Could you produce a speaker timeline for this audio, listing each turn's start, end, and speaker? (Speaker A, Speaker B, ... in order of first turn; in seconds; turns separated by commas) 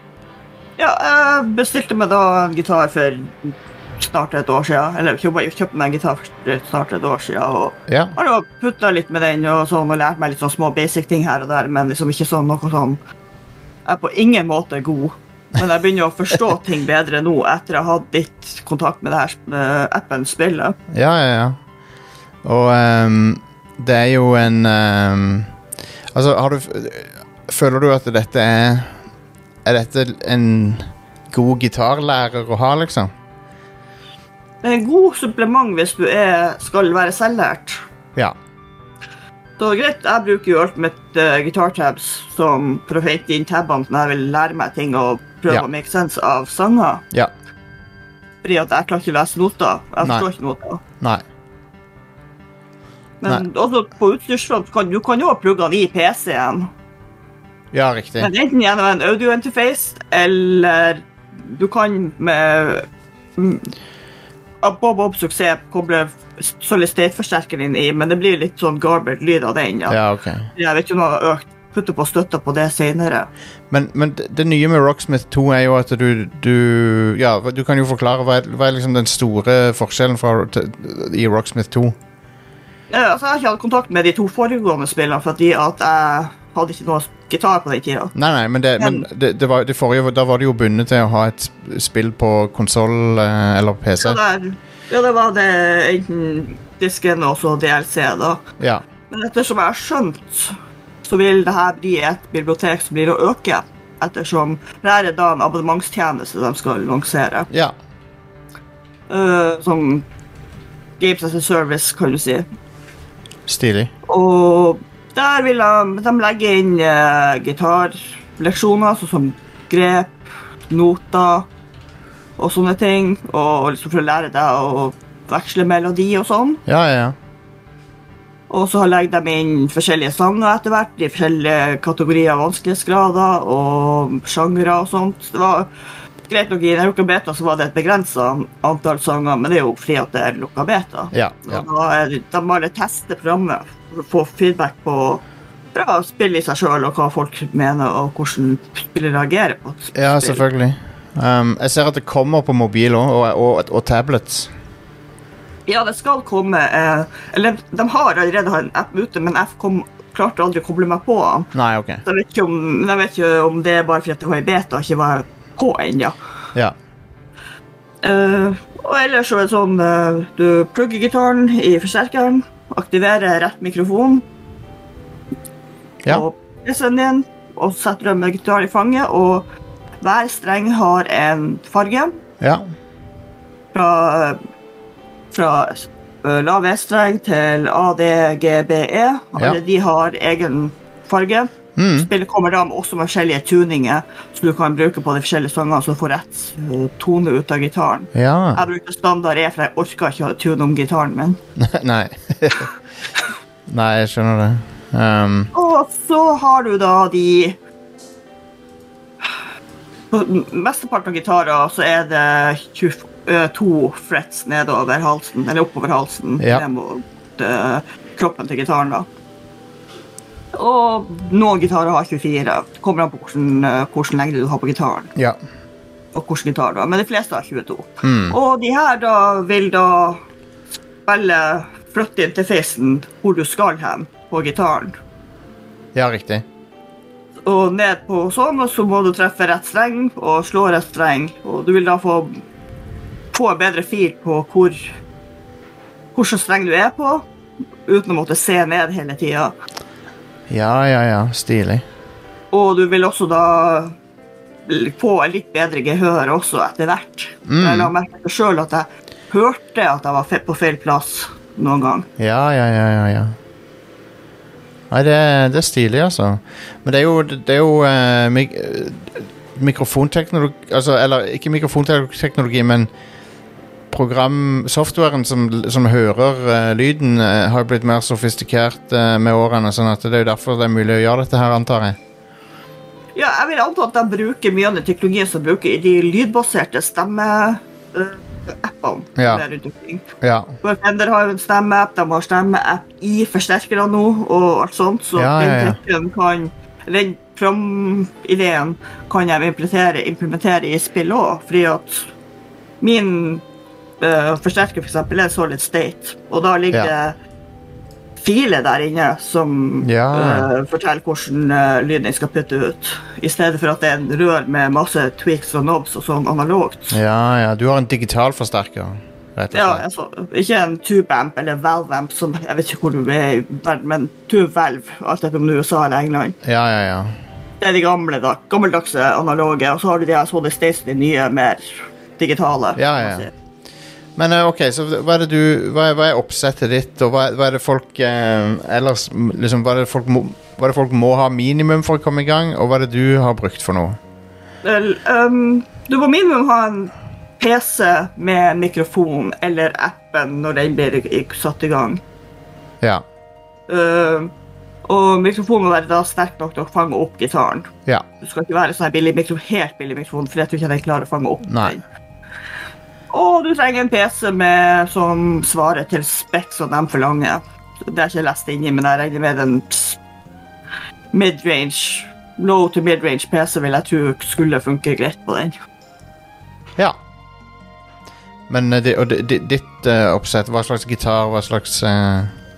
Speaker A: 0.8-13.0, Speaker B: 7.9-8.2, Speaker A: 13.9-20.8, Speaker B: 20.9-21.6, Speaker B: 22.4-25.5, Speaker B: 26.1-29.0, Speaker B: 29.6-33.1, Speaker A: 34.6-37.8, Speaker A: 39.6-47.0, Speaker A: 48.4-50.8, Speaker B: 50.0-50.3, Speaker A: 53.2-56.7, Speaker B: 57.7-58.3, Speaker A: 58.2-63.7, Speaker A: 64.6-70.0, Speaker B: 69.9-70.5, Speaker A: 70.5-73.3, Speaker B: 73.7-82.0, Speaker A: 82.9-88.1, Speaker B: 88.2-94.2, Speaker A: 88.8-89.0, Speaker A: 94.0-98.4, Speaker B: 98.6-98.8, Speaker A: 99.1-107.5, Speaker B: 107.5-107.8, Speaker A: 109.1-110.1, Speaker A: 111.0-112.5, Speaker B: 113.5-113.9, Speaker A: 114.1-120.2, Speaker A: 120.7-121.5, Speaker A: 122.4-126.6, Speaker B: 126.7-127.2, Speaker A: 128.5-135.7, Speaker A: 136.3-145.2, Speaker B: 141.1-141.7, Speaker A: 145.8-150.4, Speaker B: 149.9-154.5, Speaker A: 155.7-161.5, Speaker B: 161.5-162.0, Speaker A: 162.1-166.2, Speaker A: 168.0-174.2, Speaker A: 176.0-179.5, Speaker A: 180.0-182.2, Speaker B: 182.4-182.7, Speaker A: 183.7-184.4, Speaker A: 185.3-201.4, Speaker B: 191.8-192.1, Speaker B: 198.1-198.7, Speaker B: 201.6-202.7, Speaker B: 203.7-205.5, Speaker A: 205.5-207.6, Speaker A: 210.1-219.1, Speaker B: 216.4-216.7, Speaker A: 220.6-225.1, Speaker A: 226.1-230.2, Speaker B: 228.0-228.4, Speaker A: 231.1-235.0, Speaker B: 235.9-236.4, Speaker A: 237.4-242.4, Speaker A: 243.3-244.9, Speaker A: 246.2-247.3, Speaker A: 247.9-249.6, Speaker B: 250.5-251.8, Speaker A: 252.5-253.9, Speaker A: 254.7-262.1, Speaker B: 257.5-257.9, Speaker B: 262.2-263.4, Speaker B: 264.9-272.9, Speaker B: 273.9-282.0, Speaker A: 283.1-290.1, Speaker B: 289.2-289.4, Speaker B: 290.2-290.5, Speaker A: 290.6-302.1, Speaker B: 295.2-295.8, Speaker A: 302.8-303.4, Speaker A: 304.0-307.2, Speaker A: 308.2-317.0, Speaker B: 309.8-310.5, Speaker B: 316.9-319.8, Speaker A: 319.5-326.4, Speaker B: 326.4-327.2, Speaker A: 327.6-333.3, Speaker B: 332.8-333.3, Speaker B: 334.2-344.0, Speaker A: 344.6-352.0, Speaker A: 353.7-354.3, Speaker A: 354.9-357.7, Speaker A: 358.2-361.8, Speaker B: 361.4-361.8, Speaker A: 363.1-370.0, Speaker A: 371.1-375.6, Speaker B: 378.5-382.4